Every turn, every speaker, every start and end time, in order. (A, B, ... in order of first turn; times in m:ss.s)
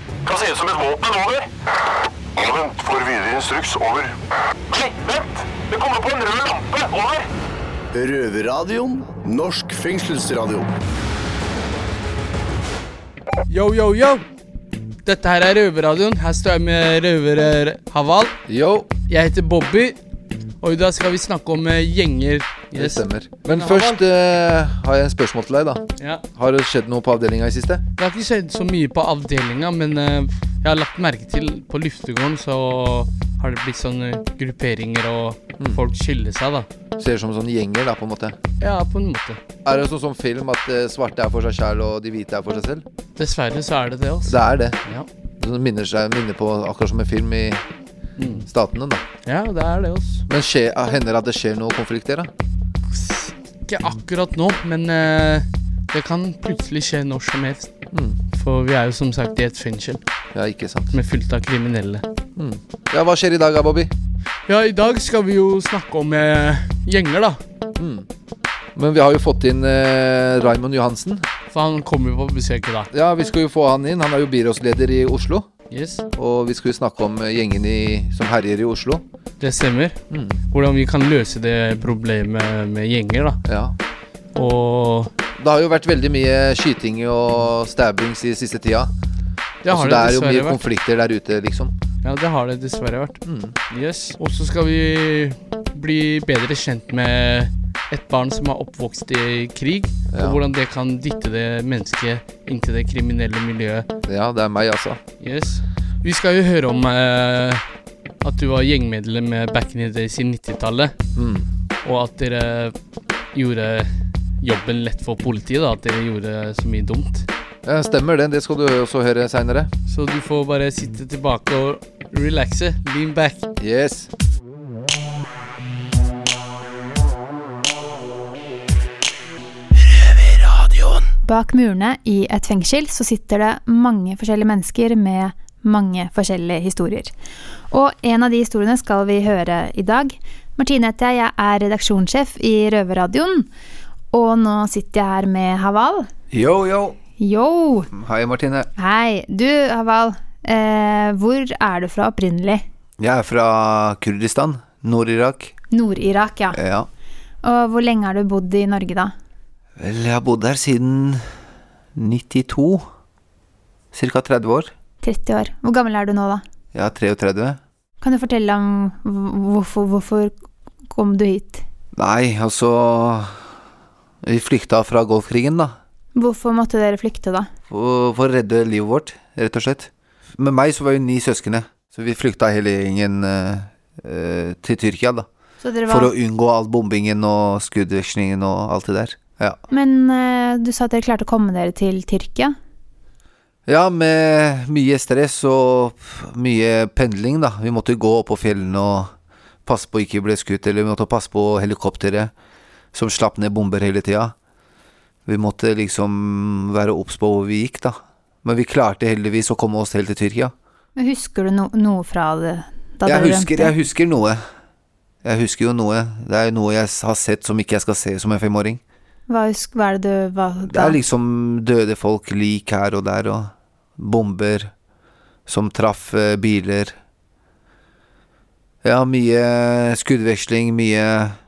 0:00.2-0:01.5 A
0:02.4-0:04.1 A
0:04.7-0:07.3 A
0:07.9-0:10.7 B
0:13.5-0:14.2 C
0:15.0-0:18.4 C
0:18.5-0:18.9 D
0:19.1-0:20.0 C
0:20.6-0:24.0 C
0:22.7-0:25.8 D
0:26.0-0:26.2 C
0:26.4-0:27.8 D
0:28.0-0:36.7 C
0:37.0-0:38.4 D
0:38.6-0:39.4 C
0:39.6-0:42.8 D
0:43.2-0:45.1 C
0:44.2-0:44.8 D
0:45.4-0:47.6 D
0:48.2-0:48.5 C
0:48.4-0:49.0 D
0:49.2-0:50.2 C
0:50.3-0:52.3 D
0:52.9-0:57.7 C
0:57.9-0:58.2 D
0:58.3-1:00.0 C
1:00.3-1:00.9 D
1:00.9-1:02.0 C
1:02.4-1:03.9 D
1:04.5-1:07.4 C
1:07.8-1:08.0 D
1:08.8-1:11.2 D
1:11.5-1:12.9 C
1:12.9-1:15.5 D
1:15.7-1:16.0 C
1:16.2-1:19.0 D
1:19.4-1:20.0 C
1:20.1-1:20.4 D
1:20.5-1:23.4 C
1:23.4-1:23.8 D
1:24.3-1:25.1 C
1:25.4-1:28.9 D
1:29.6-1:30.6 C
1:29.7-1:31.7 D
1:32.0-1:43.9 C
1:33.2-1:33.6 D
1:40.1-1:40.4 D
1:44.0-1:45.0 D
1:45.2-1:47.6 C
1:48.2-1:50.9 C
1:51.2-1:51.5 D
1:51.8-1:52.7 C
1:53.3-1:53.9 C
1:54.4-1:57.3 C
1:57.6-1:59.7 D
1:59.9-2:03.5 C
2:03.6-2:04.1 D
2:11.2-2:17.1 E
2:17.7-2:23.5 E
2:24.1-2:26.1 E
2:26.3-2:27.0 D
2:27.2-2:27.9 E
2:27.9-2:28.7 D
2:28.8-2:32.6 E
2:33.0-2:35.5 D
2:35.7-2:36.6 E
2:36.5-2:36.9 D
2:37.4-2:39.1 E
2:39.8-2:41.2 D
2:42.0-2:42.8 D
2:43.9-2:44.7 D
2:45.0-2:46.4 E
2:46.7-2:47.6 D
2:48.0-2:50.3 E
2:50.9-2:51.6 E
2:52.0-2:53.3 D
2:54.2-2:55.7 D
2:56.2-2:57.5 E
2:57.7-3:05.3 D
3:05.6-3:06.1 E
3:05.9-3:09.6 D
3:09.7-3:12.5 E
3:13.7-3:19.1 D
3:19.6-3:22.3 D
3:22.9-3:24.3 D
3:25.2-3:30.5 D
3:31.0-3:33.7 E
3:33.0-3:34.4 D
3:35.2-3:38.8 D
3:39.3-3:41.0 E
3:40.7-3:44.7 D
3:45.5-3:46.9 D
3:48.8-3:51.4 D